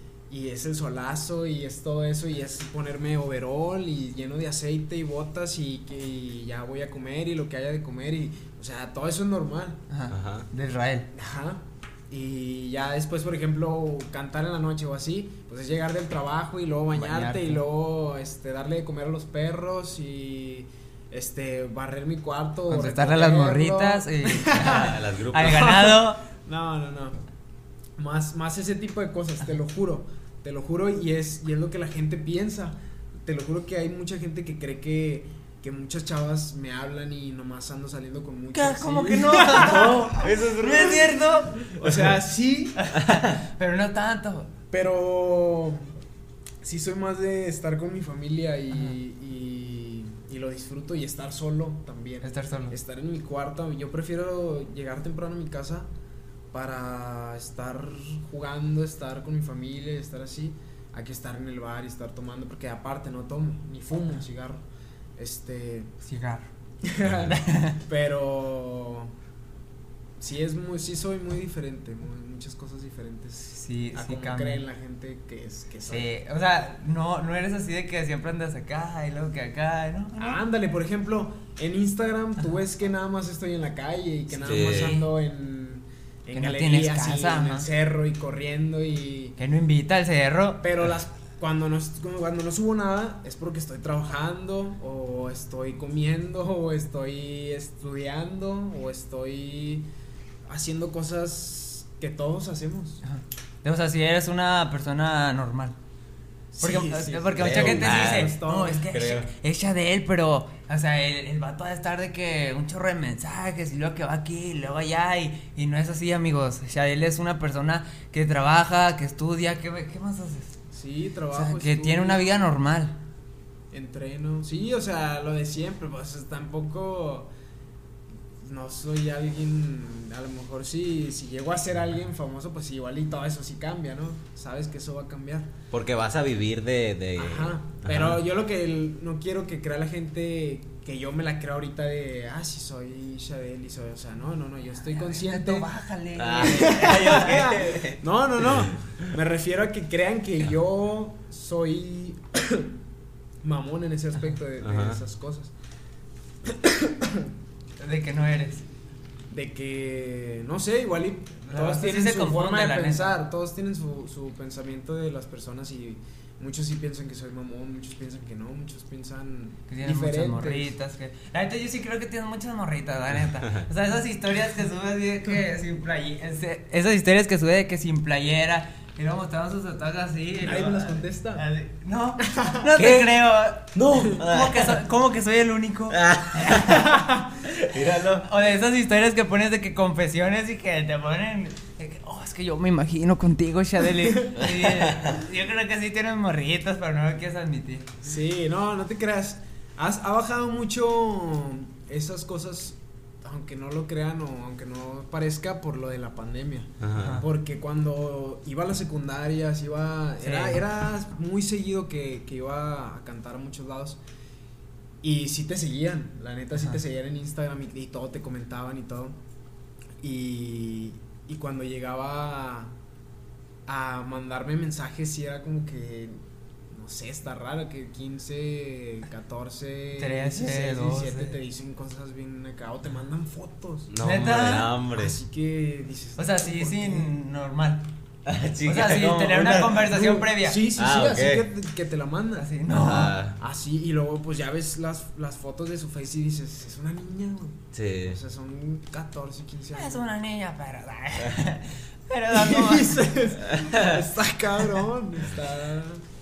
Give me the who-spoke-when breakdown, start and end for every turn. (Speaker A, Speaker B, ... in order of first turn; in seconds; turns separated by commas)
Speaker A: 0.3-9.8, Speaker B: 9.9-11.1, Speaker C: 10.1-10.5, Speaker A: 11.1-27.2, Speaker B: 16.9-17.6, Speaker B: 22.7-26.2, Speaker C: 24.6-25.6, Speaker A: 28.0-40.1, Speaker B: 38.5-41.7, Speaker C: 40.2-41.3, Speaker A: 41.7-42.8, Speaker B: 42.8-44.5, Speaker C: 43.0-43.4, Speaker A: 44.7-45.9, Speaker A: 46.6-55.9, Speaker B: 48.7-49.0, Speaker B: 52.2-52.8, Speaker A: 56.5-64.6, Speaker A: 65.2-65.9, Speaker B: 66.0-66.5, Speaker A: 66.8-69.1, Speaker C: 67.0-67.3, Speaker B: 67.3-67.8, Speaker A: 70.2-76.1, Speaker B: 73.3-74.7, Speaker B: 75.8-80.4, Speaker A: 80.2-89.4, Speaker C: 84.4-85.0, Speaker B: 84.7-85.1, Speaker B: 86.3-87.7, Speaker B: 89.4-90.7, Speaker A: 90.6-99.9, Speaker A: 100.5-103.0, Speaker B: 103.0-105.8, Speaker A: 106.5-108.9, Speaker B: 106.6-120.5, Speaker C: 107.4-108.3, Speaker C: 108.9-109.3, Speaker A: 120.7-122.4, Speaker B: 121.3-122.9, Speaker A: 123.7-127.3, Speaker A: 128.4-135.5, Speaker C: 135.7-138.2, Speaker A: 137.2-145.7, Speaker B: 144.8-147.3, Speaker C: 146.1-149.0, Speaker A: 146.4-152.7, Speaker A: 153.4-155.5, Speaker C: 154.6-155.0, Speaker A: 156.5-157.1, Speaker B: 157.8-158.7, Speaker A: 159.3-170.8, Speaker B: 161.5-163.1, Speaker B: 169.7-186.9, Speaker A: 180.4-181.4, Speaker A: 182.2-182.7, Speaker C: 182.8-183.1, Speaker C: 183.8-184.8, Speaker C: 185.9-188.3, Speaker A: 186.8-187.1, Speaker B: 188.1-197.9, Speaker A: 193.9-194.4, Speaker C: 194.8-195.1, Speaker A: 198.0-214.0, Speaker C: 206.8-207.2, Speaker B: 207.0-207.2, Speaker B: 210.2-210.6, Speaker A: 215.0-219.2, Speaker A: 220.0-222.8, Speaker A: 223.7-226.2, Speaker A: 226.7-233.9, Speaker B: 230.0-231.3, Speaker C: 233.9-235.2, Speaker B: 234.0-234.7, Speaker A: 234.9-237.1, Speaker B: 236.2-237.9, Speaker C: 238.2-239.9, Speaker B: 238.6-240.7, Speaker A: 239.8-242.5, Speaker C: 240.8-241.5, Speaker B: 242.3-243.2, Speaker C: 242.7-243.4, Speaker A: 243.4-250.1, Speaker C: 247.7-248.2, Speaker B: 249.8-253.1, Speaker A: 252.3-256.0